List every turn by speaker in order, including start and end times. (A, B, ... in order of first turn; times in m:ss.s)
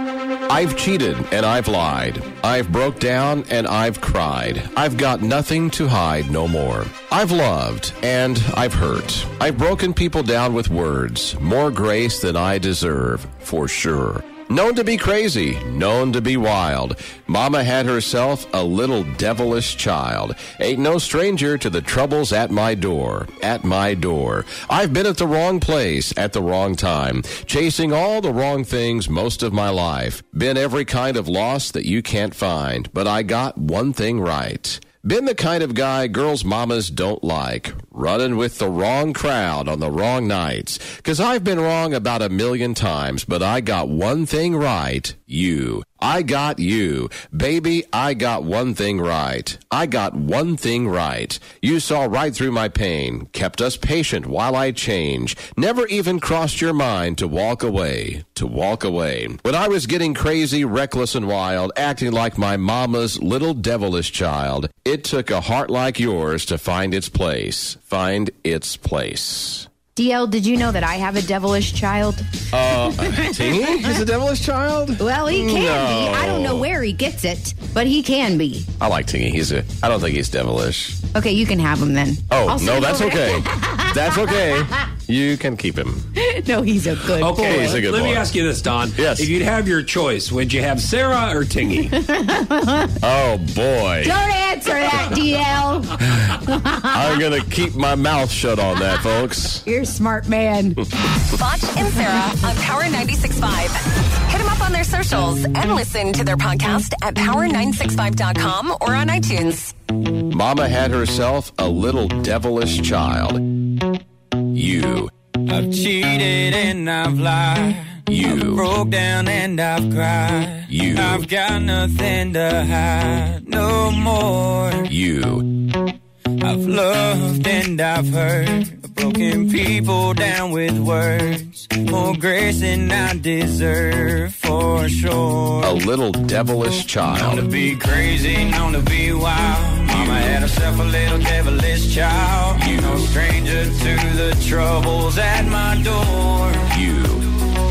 0:00.5-1:09.7 A
1:10.0-1:13.5 B
1:12.5-1:16.7 A
1:15.0-1:18.7 B
1:18.8-1:21.0 A
1:21.1-1:24.4 B
1:22.3-1:26.0 A
1:26.2-1:27.8 B
1:27.1-1:32.0 C
1:27.4-1:28.3 A
1:28.9-1:29.3 A
1:32.0-1:32.9 B
1:33.0-1:34.2 A
1:34.0-1:36.0 B
1:36.2-1:39.6 A
1:39.6-1:40.8 B
1:41.2-1:49.7 D
1:50.2-1:53.4 A
1:54.5-1:55.1 A
1:55.5-2:04.9 E
1:58.1-1:58.6 A
2:00.7-2:01.2 A
2:04.9-2:05.5 A
2:06.4-2:15.8 E
2:15.6-2:17.5 A
2:17.0-2:26.8 E
2:19.9-2:20.4 A
2:22.6-2:23.1 A
2:26.7-2:27.2 A